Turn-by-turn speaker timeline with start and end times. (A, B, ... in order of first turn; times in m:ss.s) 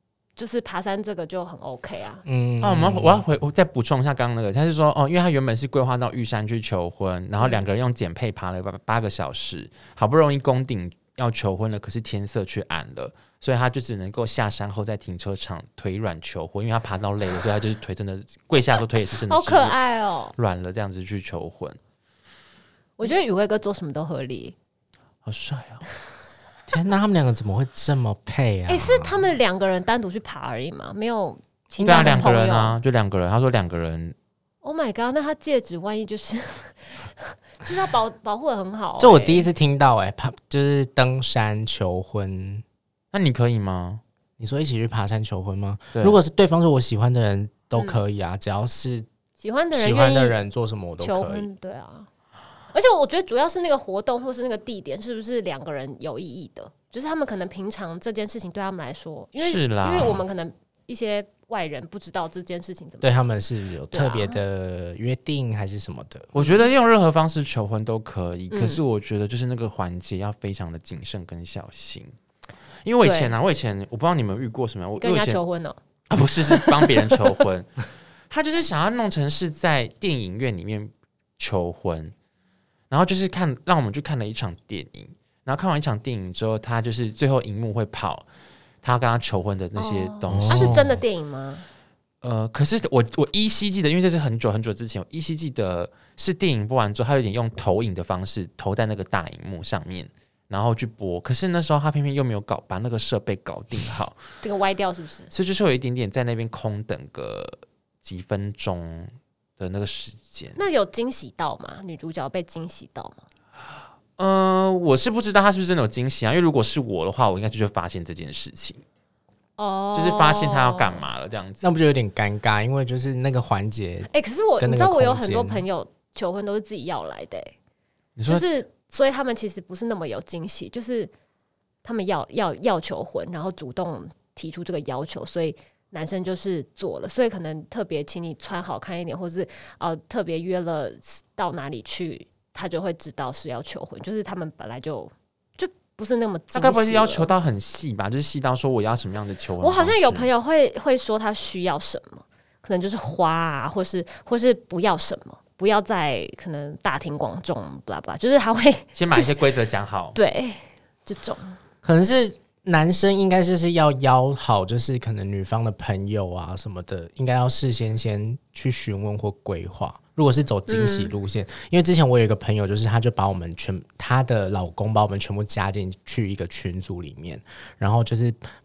0:00.4-0:02.2 A
0:02.2-0:03.2 B
0:02.6-0:19.8 C
0:07.4-0:07.6 A
0:19.3-0:20.4 A
0:20.4-0:21.8 C
0:23.0-0:24.6 A
0:25.2-0:25.8 C
0:26.7-0:29.2 B
0:28.7-0:32.8 A
0:31.8-0:32.2 B
0:31.8-0:34.1 C
0:34.6-0:39.5 A
0:39.0-0:42.6 B
0:43.1-0:44.0 C
0:44.4-0:49.1 B
0:47.8-0:48.0 A
0:49.4-0:50.4 A
0:49.7-0:51.5 B
0:51.0-0:52.1 A
0:52.7-1:03.1 A
0:59.4-1:00.2 C
1:03.0-1:06.3 B
1:03.9-1:04.4 A
1:06.3-1:12.1 C
1:06.4-1:06.7 A
1:08.5-1:08.8 A
1:12.8-1:15.4 C
1:13.0-1:13.3 A
1:15.0-1:15.8 A
1:16.1-1:17.7 C
1:16.5-1:17.1 A
1:18.3-1:22.1 C
1:22.9-1:28.2 C
1:28.8-1:30.8 C
1:29.8-1:31.7 A
1:30.3-1:31.0 B
1:32.2-1:44.2 C
1:44.4-1:45.3 A
1:45.3-1:50.6 C
1:50.6-1:53.2 A
1:54.2-1:58.8 C
1:59.6-2:01.1 A
1:59.9-2:01.7 C
2:01.6-2:04.1 B
2:04.1-2:07.5 A
2:04.6-2:05.6 B
2:08.2-2:08.5 C
2:08.3-2:11.1 A
2:11.8-2:27.3 A
2:26.5-2:30.3 C
2:29.6-2:39.4 A
2:39.0-2:40.2 C
2:40.1-2:41.6 A
2:41.8-2:58.4 B
2:50.7-2:51.1 A